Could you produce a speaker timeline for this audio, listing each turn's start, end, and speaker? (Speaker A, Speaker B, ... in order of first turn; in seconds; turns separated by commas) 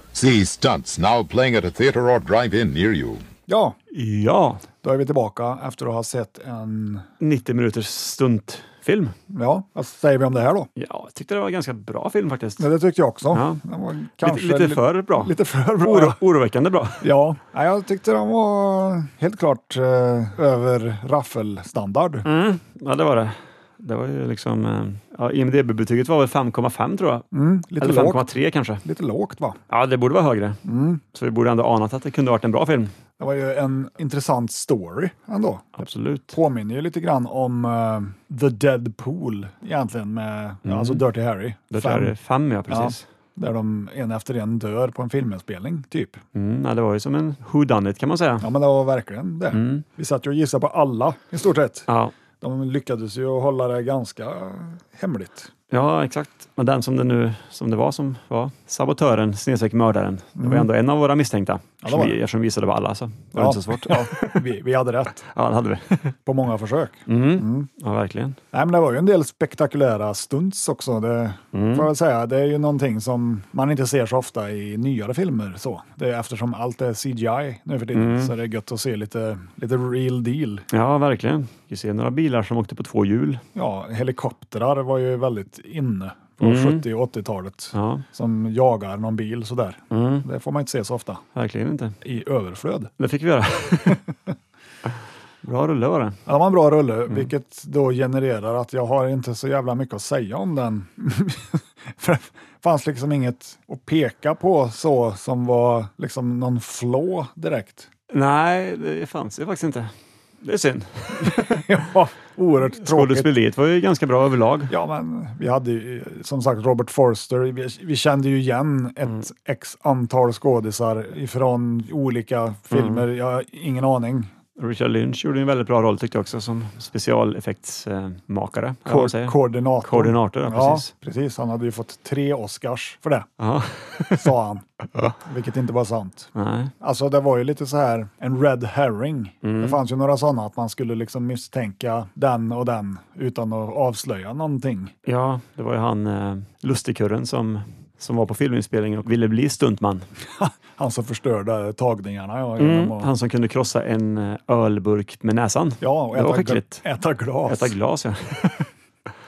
Speaker A: 0.1-3.2, Speaker B: 3.5-3.8, Speaker C: 3.9-4.6, Speaker B: 4.8-7.1, Speaker C: 7.2-9.1, Speaker B: 9.3-10.7, Speaker C: 10.8-12.7, Speaker B: 12.6-16.2, Speaker C: 13.3-13.6, Speaker C: 14.2-17.1, Speaker B: 17.0-22.2, Speaker C: 22.2-27.2, Speaker B: 27.3-28.3, Speaker C: 27.8-28.8, Speaker B: 28.8-29.6, Speaker C: 29.7-30.6, Speaker B: 30.6-31.0, Speaker C: 31.1-32.9, Speaker B: 33.2-42.1, Speaker C: 35.8-36.4, Speaker C: 40.6-41.0, Speaker C: 41.7-43.0, Speaker B: 42.7-46.2, Speaker C: 46.3-48.5, Speaker B: 48.4-51.9, Speaker C: 49.5-49.8, Speaker C: 51.9-52.1, Speaker B: 52.4-55.5, Speaker C: 55.7-64.4, Speaker B: 60.4-60.7, Speaker B: 61.8-62.2, Speaker B: 63.3-65.2, Speaker C: 65.2-66.1, Speaker B: 66.2-67.7, Speaker C: 67.1-68.4, Speaker B: 68.5-80.7, Speaker C: 71.5-71.9, Speaker C: 77.9-78.3, Speaker C: 80.7-83.4, Speaker B: 83.5-91.2, Speaker C: 86.4-86.8, Speaker C: 87.7-88.0, Speaker C: 89.9-90.2, Speaker C: 91.3-92.0, Speaker B: 92.0-92.9, Speaker C: 93.0-94.0, Speaker B: 93.8-94.3, Speaker C: 95.4-96.2, Speaker B: 96.2-107.9, Speaker C: 108.1-111.7, Speaker B: 111.2-113.3, Speaker C: 112.7-114.7, Speaker B: 114.7-124.3, Speaker C: 122.7-123.0, Speaker C: 124.6-130.9, Speaker B: 128.8-133.3, Speaker C: 133.4-134.3, Speaker B: 134.1-144.9, Speaker C: 136.3-136.7, Speaker C: 139.4-139.8, Speaker C: 145.1-150.1, Speaker B: 150.4-153.1, Speaker C: 152.6-156.8, Speaker B: 155.8-157.7, Speaker C: 157.4-158.7